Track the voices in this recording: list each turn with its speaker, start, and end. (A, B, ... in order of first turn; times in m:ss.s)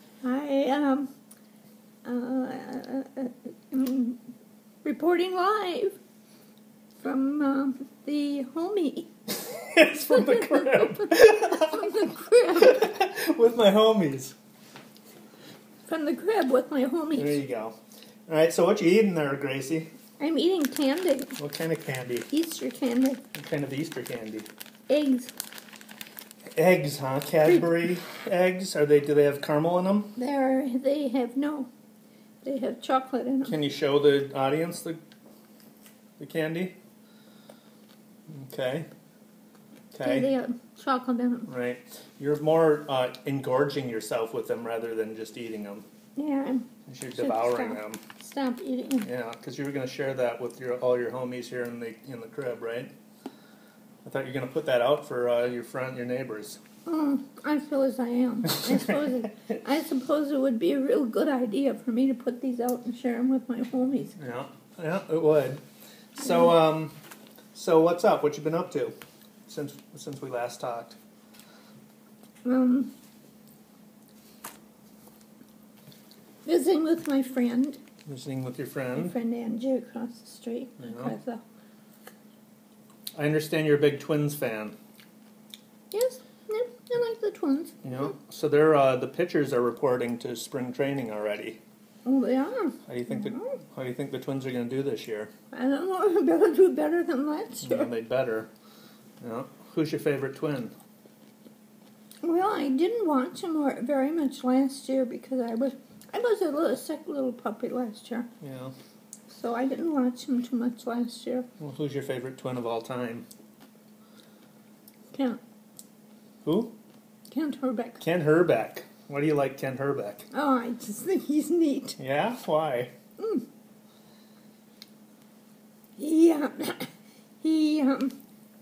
0:00.2-0:01.1 A
0:02.0-0:04.2 A
0:04.8-0:06.0 A
0:07.0-0:12.9 A
0:09.5-0:11.9 B
0:12.5-0:14.4 B
0:15.9-0:17.4 A
0:17.1-0:19.9 B
0:20.2-0:21.4 A
0:21.4-0:22.3 B
0:22.3-0:23.2 A
0:23.4-0:24.5 B
0:24.9-0:25.3 A
0:26.6-0:30.1 B
0:30.2-0:31.7 A
0:32.4-0:33.6 A
0:33.5-0:35.0 B
0:36.2-0:36.8 B
0:38.3-0:38.9 B
0:39.9-0:40.3 B
0:40.0-0:41.5 A
0:41.5-0:45.8 B
0:46.2-0:49.1 A
0:46.9-0:48.0 B
0:49.0-0:52.9 B
0:54.0-0:56.6 B
0:56.9-1:04.2 A
0:58.5-0:59.0 B
1:04.2-1:05.6 B
1:06.2-1:06.9 B
1:07.5-1:08.9 B
1:09.5-1:11.0 B
1:12.4-1:12.9 A
1:16.5-1:17.8 A
1:18.1-1:19.2 B
1:19.0-1:21.4 A
1:20.8-1:21.2 B
1:23.2-1:24.8 B
1:25.9-1:28.0 A
1:27.8-1:31.6 B
1:32.0-1:33.6 A
1:32.9-1:35.3 B
1:35.5-1:37.9 A
1:37.6-1:38.5 B
1:39.2-1:40.7 B
1:42.2-1:48.3 A
1:48.4-1:48.7 B
1:49.3-1:51.5 A
1:51.6-1:53.3 B
1:55.1-1:55.4 A
1:56.4-1:56.7 B
1:57.3-1:58.0 A
1:58.0-2:00.3 B
2:00.3-2:02.0 A
2:02.0-2:02.9 B
2:03.2-2:03.4 A
2:06.0-2:08.2 A